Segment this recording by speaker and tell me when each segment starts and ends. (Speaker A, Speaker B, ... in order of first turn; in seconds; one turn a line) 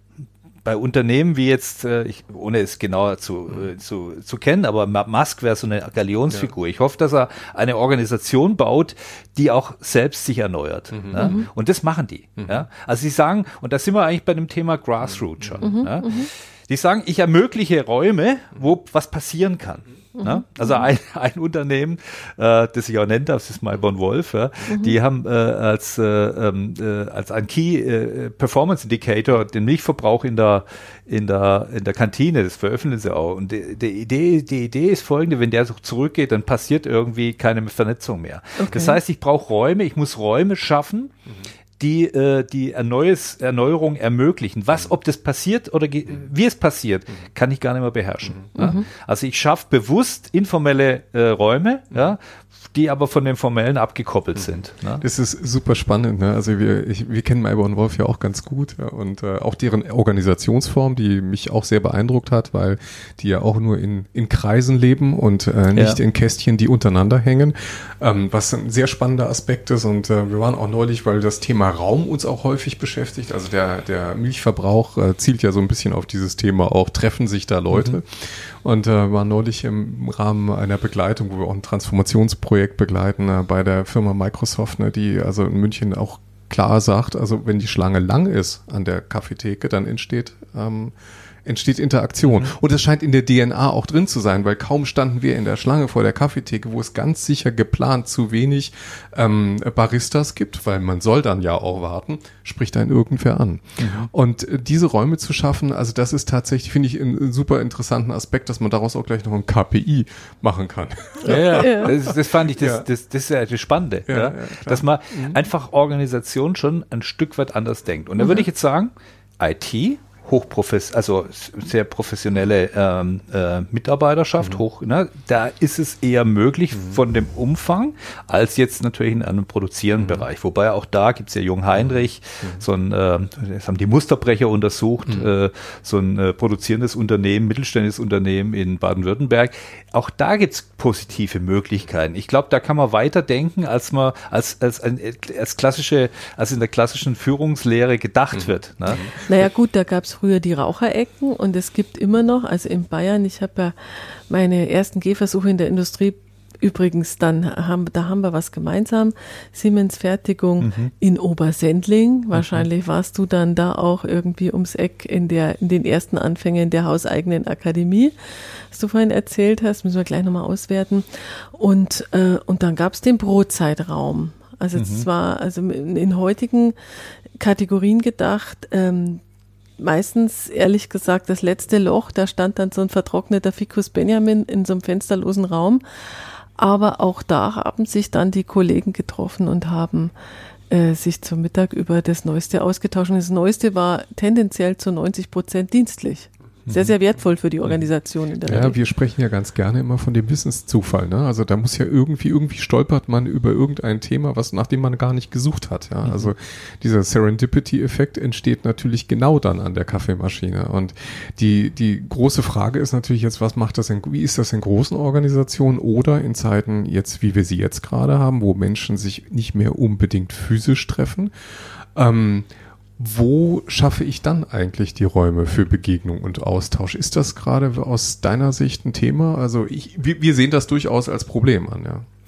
Speaker A: 0.6-41.1
Speaker B: 10.9-11.3
Speaker C: 11.2-11.4
Speaker C: 15.6-16.3
Speaker C: 20.2-20.9
Speaker C: 24.7-24.9
Speaker C: 38.6-39.0
Speaker A: 41.8-55.0
Speaker C: 48.6-48.8
Speaker B: 55.0-112.9
Speaker A: 65.7-66.0
Speaker A: 77.7-78.0
Speaker A: 92.2-92.5
Speaker A: 103.8-104.1
Speaker A: 111.2-149.0
Speaker C: 111.3-111.9
Speaker B: 114.1-115.4
Speaker C: 118.2-118.4
Speaker B: 148.3-149.1
Speaker C: 149.1-168.1
Speaker A: 160.6-160.9
Speaker A: 162.3-162.6
Speaker C: 168.7-176.8
Speaker A: 174.7-175.1
Speaker C: 177.4-179.2
Speaker C: 179.8-185.8
Speaker C: 186.6-190.1
Speaker C: 190.7-198.8
Speaker B: 198.4-221.3
Speaker A: 206.0-206.3
Speaker B: 221.9-232.0